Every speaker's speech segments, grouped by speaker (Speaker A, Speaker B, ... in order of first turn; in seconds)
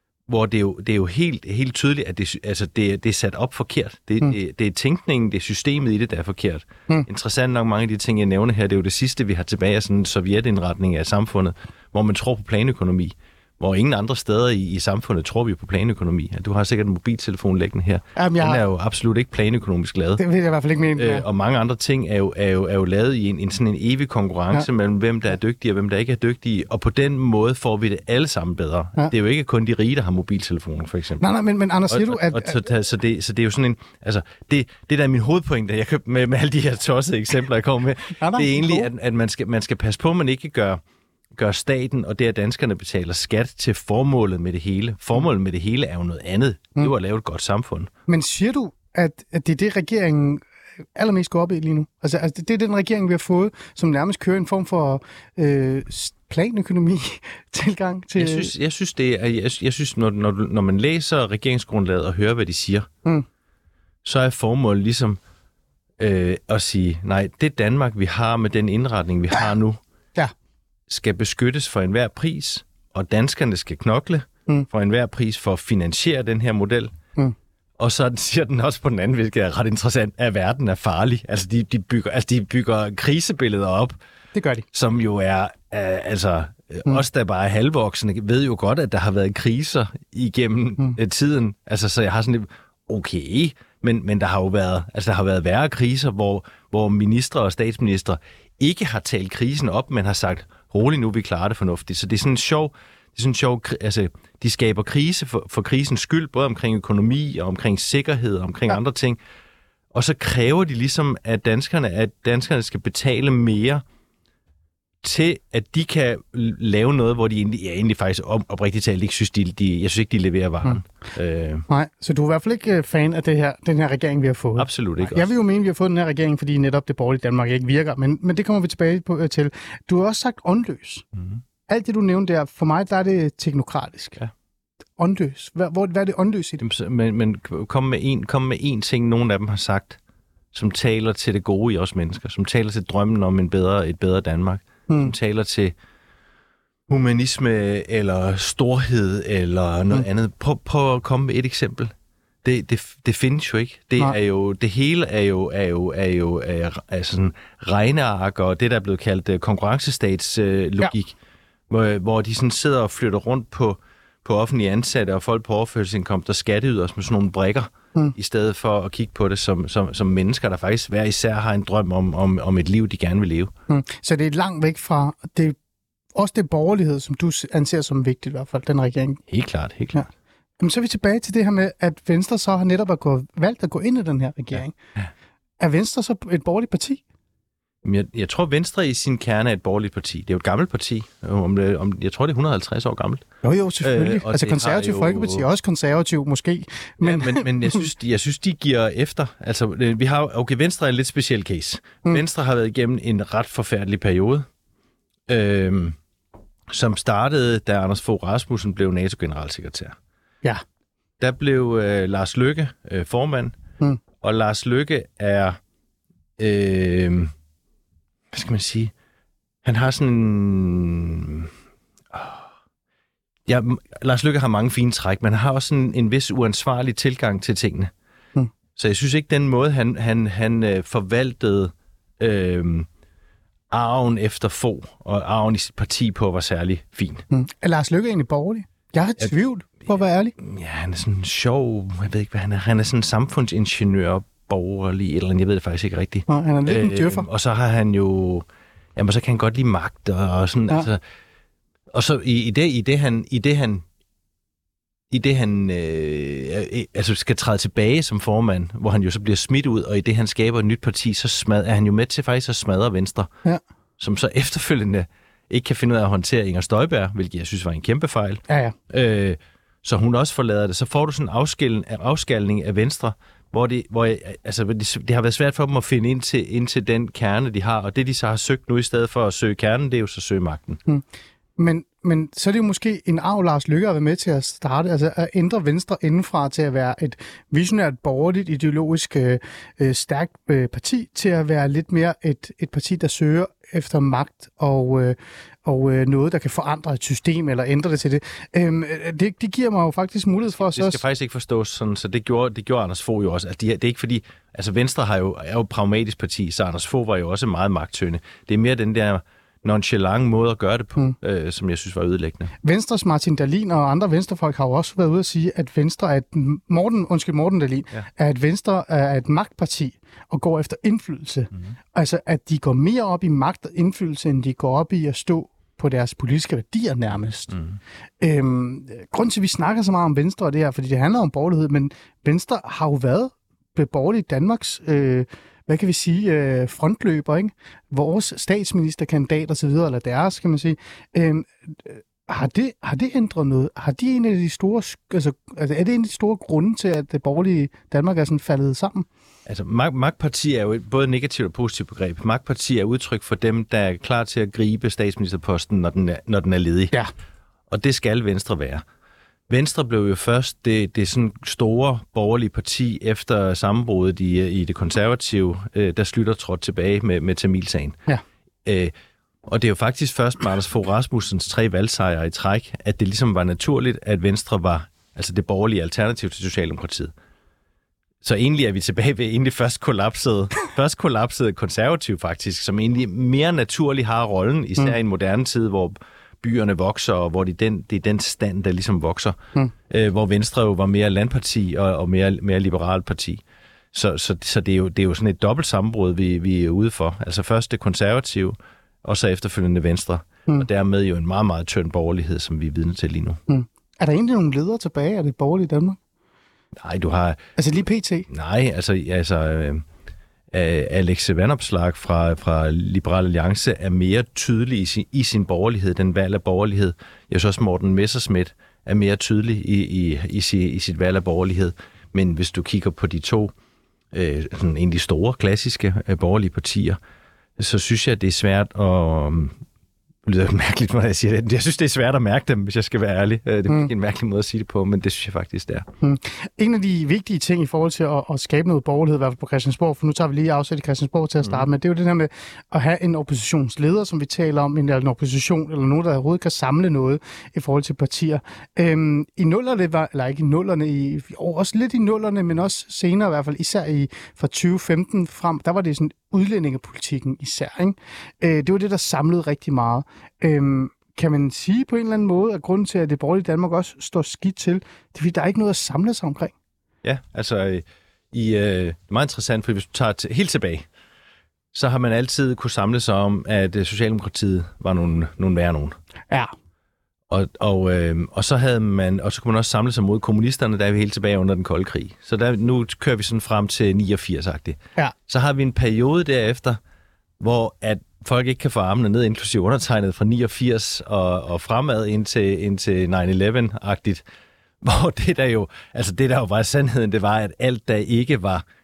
Speaker A: 0.3-20.2, 21.0-31.2, 31.9-40.8, 41.4-47.9, 58.2-62.9, 64.0-65.2, 66.0-69.8, 70.9-76.9, 77.8-84.0, 84.7-109.2, 109.9-113.8, 115.0-121.7, 124.6-125.3, 136.6-140.0, 140.5-145.8, 146.9-151.9, 152.4-161.2, 161.7-173.5, 179.3-180.1, 187.8-193.3, 193.8-195.4, 197.0-204.5, 205.3-206.0, 206.7-210.0, 211.2-213.5, 214.2-215.6, 216.4-217.3, 218.3-218.9, 219.6-221.5, 222.1-222.5, 223.5-227.9, 228.8-232.9, 233.7-237.2, 240.4-251.0, 251.9-253.8, 255.1-263.3, 264.0-280.8, 300.5-312.5, 327.5-327.8, 349.5-356.9, 357.7-358.8, 359.5-368.0, 368.6-368.9, 369.5-377.1, 378.2-389.4, 389.9-393.4, 393.9-403.4, 406.8-407.4, 408.3-409.9, 410.5-423.5, 424.1-427.0, 427.6-429.6, 430.2-435.9, 441.4-441.7, 467.0-470.9, 471.7-475.9, 477.3-486.8, 487.4-494.2, 494.8-498.6
Speaker B: 18.2-18.6, 20.2-21.3, 31.2-32.6, 38.2-38.9, 48.1-50.4, 51.0-58.5, 84.3-84.6, 121.7-131.1, 131.7-134.2, 135.0-136.6, 173.7-175.6, 176.2-179.2, 180.6-184.8, 185.6-187.0, 193.4-197.9, 237.3-240.3, 246.3-247.3, 268.5-268.8, 281.6-301.0, 312.6-327.6, 328.2-349.1, 403.5-406.0, 407.6-408.3, 436.0-466.5